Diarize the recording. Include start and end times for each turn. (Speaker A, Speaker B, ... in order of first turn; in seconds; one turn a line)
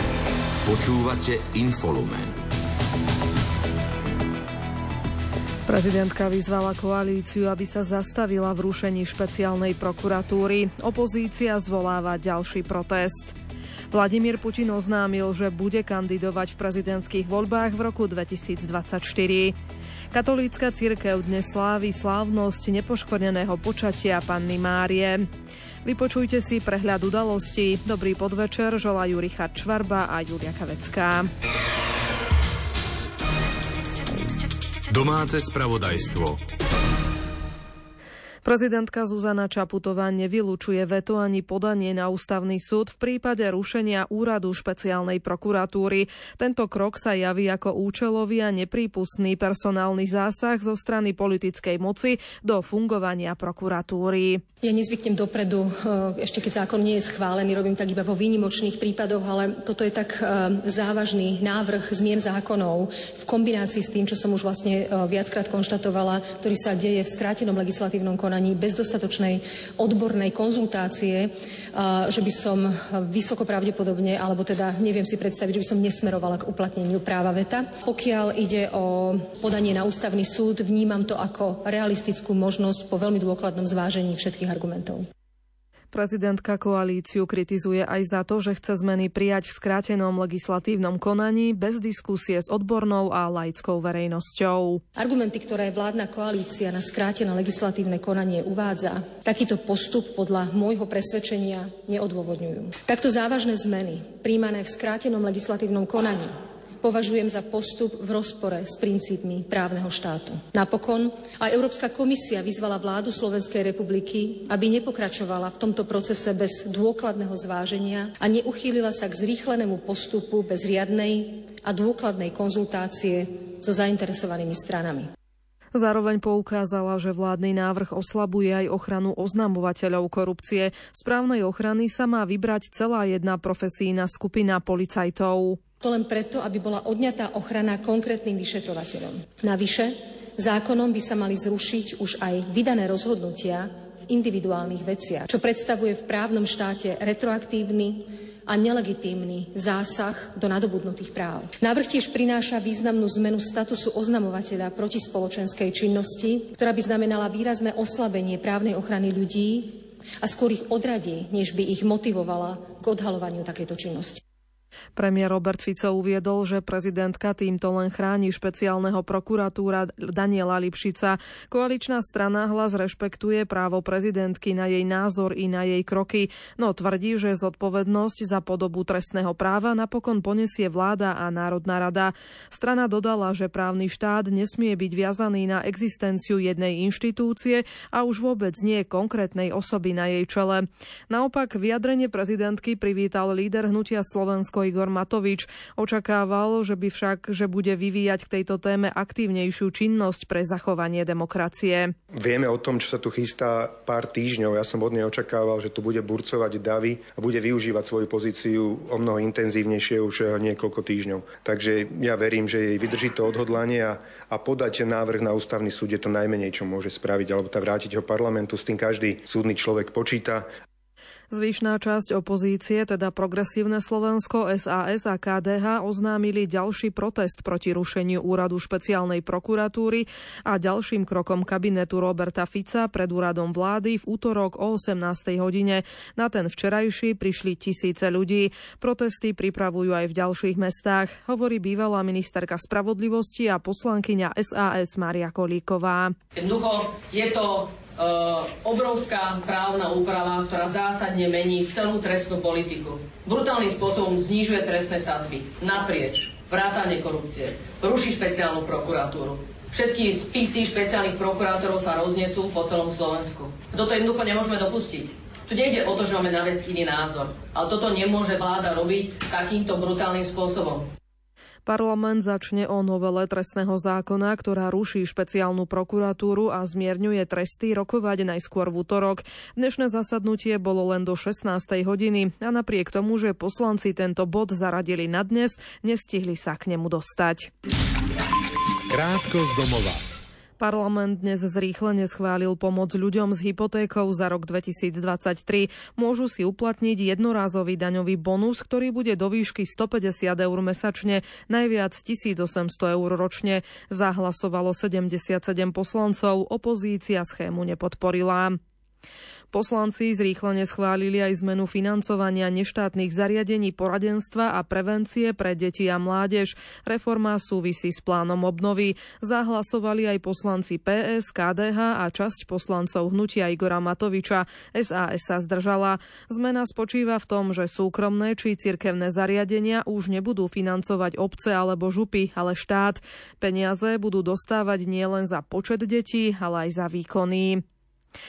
Speaker A: 0.6-2.4
Speaker B: 5.7-13.3
Speaker B: 13.9-19.5
Speaker B: 20.1-25.3
Speaker B: 25.8-31.3
Speaker A: 34.9-36.4
Speaker B: 38.4-54.4
Speaker C: 54.6-85.1
Speaker B: 85.9-94.8
Speaker C: 95.0-125.1
Speaker B: 125.7-135.6
Speaker C: 135.8-164.2
Speaker B: 164.9-201.9
Speaker D: 202.2-220.5
Speaker B: 221.3-246.2
Speaker E: 246.3-270.8
Speaker B: 271.6-287.5
Speaker A: 288.9-290.0
Speaker B: 290.6-308.6
Speaker B: 309.5-337.6